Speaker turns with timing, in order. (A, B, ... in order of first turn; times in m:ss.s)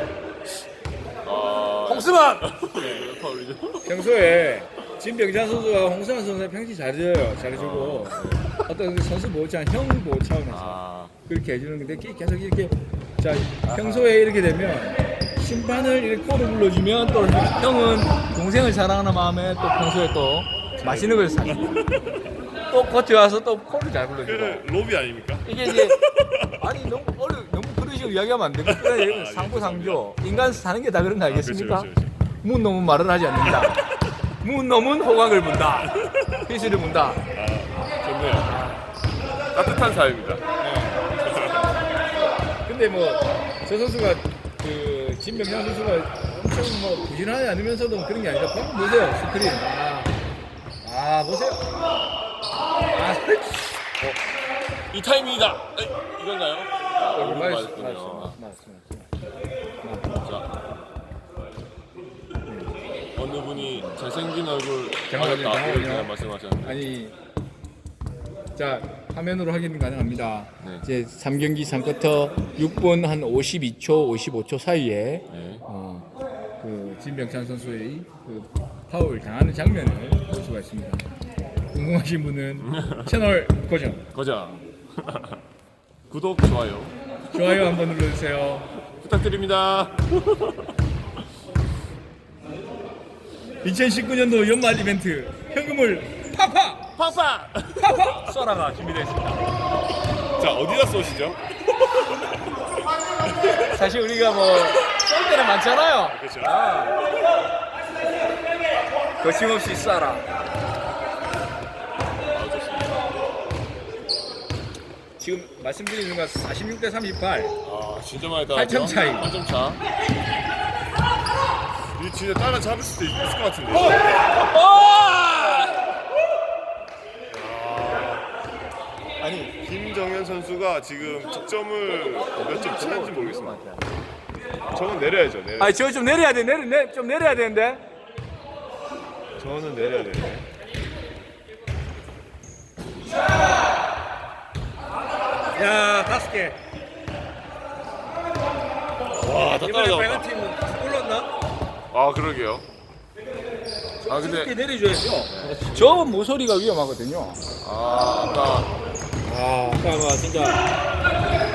0:01.2-0:03.9 A
0:01.9-0:02.4 B
0:03.8-0:21.8 B
0:07.5-0:08.6 A
0:10.5-0:11.1 A
0:13.6-0:14.2 A
0:20.8-0:22.1 A
0:22.7-0:24.6 B
0:24.2-0:26.6 A
0:25.4-0:26.0 B
0:26.6-0:31.9 B
0:28.6-0:30.6 A
0:31.2-0:32.2 A
0:32.4-0:33.8 B
0:33.4-0:34.0 A
0:34.4-0:37.2 B
0:37.3-0:38.5 A
0:38.4-0:38.8 B
0:39.5-0:40.4 A
0:40.6-0:41.1 B
0:41.2-0:41.7 A
0:42.2-0:50.1 B
0:50.8-0:51.6 B
0:52.9-0:54.1 B
0:54.9-0:58.4 A
0:57.1-0:59.1 B
0:59.8-1:00.1 B
1:00.1-1:00.4 A
1:02.5-1:02.7 B
1:03.1-1:06.8 A
1:03.5-1:04.0 B
1:05.1-1:06.1 B
1:06.6-1:07.1 B
1:08.5-1:16.1 B
1:10.6-1:10.8 A
1:15.3-1:15.6 A
1:16.6-1:21.1 B
1:21.7-1:24.1 B
1:22.6-1:23.1 A
1:24.1-1:25.4 A
1:26.1-1:26.9 A
1:27.3-1:28.7 B
1:28.9-1:30.7 A
1:33.6-1:36.8 B
1:36.9-1:38.2 A
1:37.8-1:39.5 B
1:40.4-1:41.4 A
1:43.2-1:43.7 A
1:43.6-1:47.0 B
1:46.1-1:46.7 A
1:49.2-1:50.3 B
1:52.3-1:53.0 A
1:55.2-1:57.5 B
1:57.6-1:59.8 A
1:58.5-1:59.3 B
2:01.9-2:04.1 A
2:04.3-2:05.9 B
2:04.6-2:05.8 A
2:07.3-2:08.2 A
2:09.2-2:09.5 B
2:09.6-2:13.6 A
2:12.3-2:13.9 B
2:14.7-2:15.8 A
2:15.6-2:17.8 B
2:19.4-2:20.4 A
2:25.5-2:26.6 B
2:29.1-2:30.3 A
2:29.6-2:31.3 B
2:31.9-2:32.6 A
2:34.0-2:37.4 B
2:34.1-2:34.6 A
2:35.3-2:36.1 A
2:37.6-2:38.7 A
2:39.2-2:40.7 B